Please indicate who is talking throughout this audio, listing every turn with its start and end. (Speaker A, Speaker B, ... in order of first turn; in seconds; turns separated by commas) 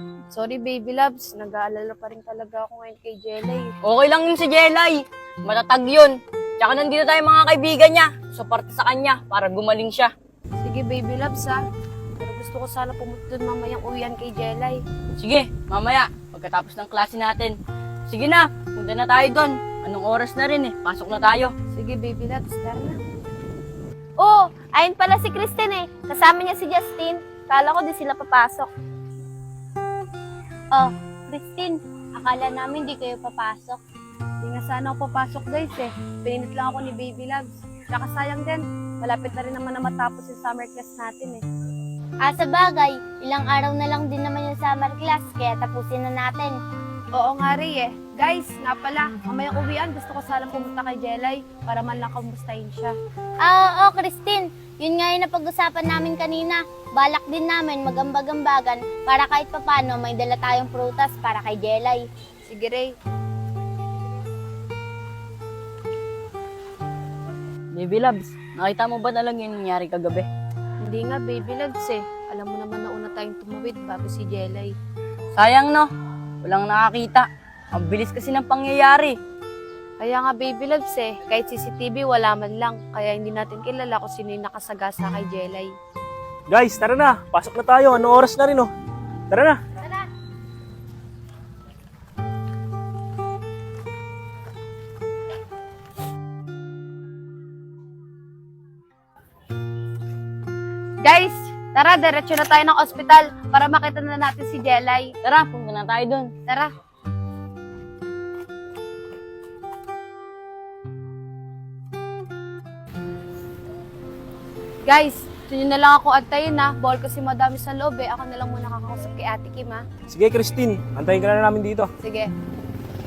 Speaker A: 0.3-3.7, Speaker B: 3.8-10.1, Speaker A: 10.6-11.6, Speaker A: 12.2-14.8, Speaker B: 15.2-17.6, Speaker B: 18.1-21.5, Speaker A: 21.7-23.0, Speaker C: 24.9-27.0, Speaker A: 27.6-27.9, Speaker C: 28.1-28.6, Speaker D: 30.8-33.8, Speaker A: 34.4-41.4, Speaker D: 42.2-46.5, Speaker A: 47.1-52.9, Speaker D: 53.4-62.0, Speaker A: 62.4-62.9, Speaker B: 67.7-70.3, Speaker A: 70.8-74.7, Speaker B: 75.4-75.9, Speaker B: 76.4-79.2, Speaker A: 80.0-85.7, Speaker E: 86.5-88.7, Speaker E: 89.3-89.6, Speaker A: 101.0-105.1, Speaker B: 105.2-106.3, Speaker A: 114.9-119.8, Speaker E: 120.1-121.9, Speaker A: 122.0-122.3